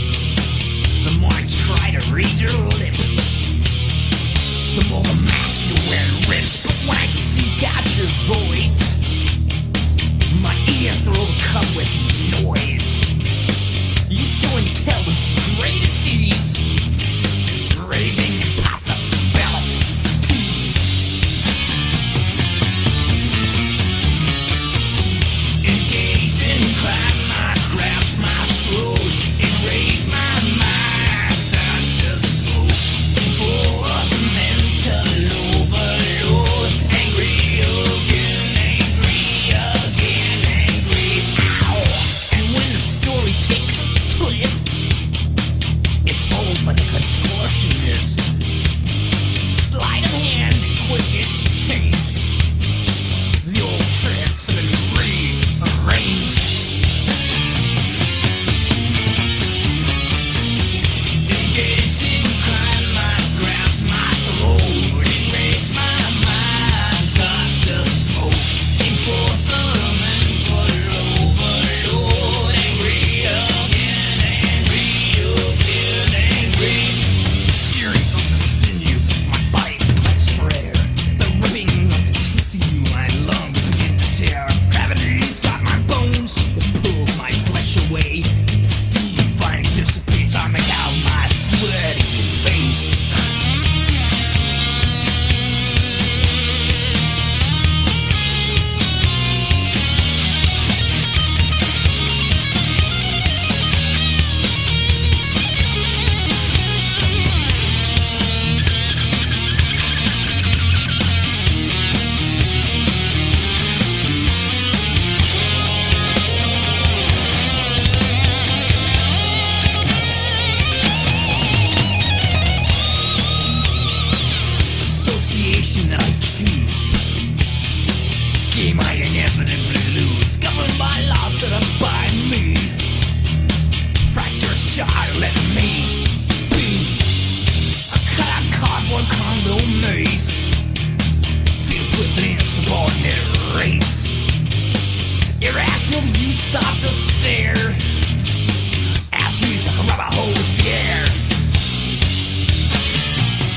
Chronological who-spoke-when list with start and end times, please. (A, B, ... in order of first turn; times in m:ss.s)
0:01.0-0:03.3 A
0:04.7-0:09.0 A
0:10.3-0:13.1 A
0:14.1-0:16.6 A
0:17.6-0:21.0 A
0:25.6-0:44.8 A
0:46.0-0:48.3 A
0:49.5-0:52.2 A
0:53.4-0:56.6 A
1:01.2-1:33.3 A
2:04.8-2:07.0 A
2:08.5-2:12.8 A
2:14.0-2:17.3 A
2:17.9-2:20.4 A
2:21.6-2:24.1 A
2:25.4-2:27.8 A
2:29.1-2:31.2 A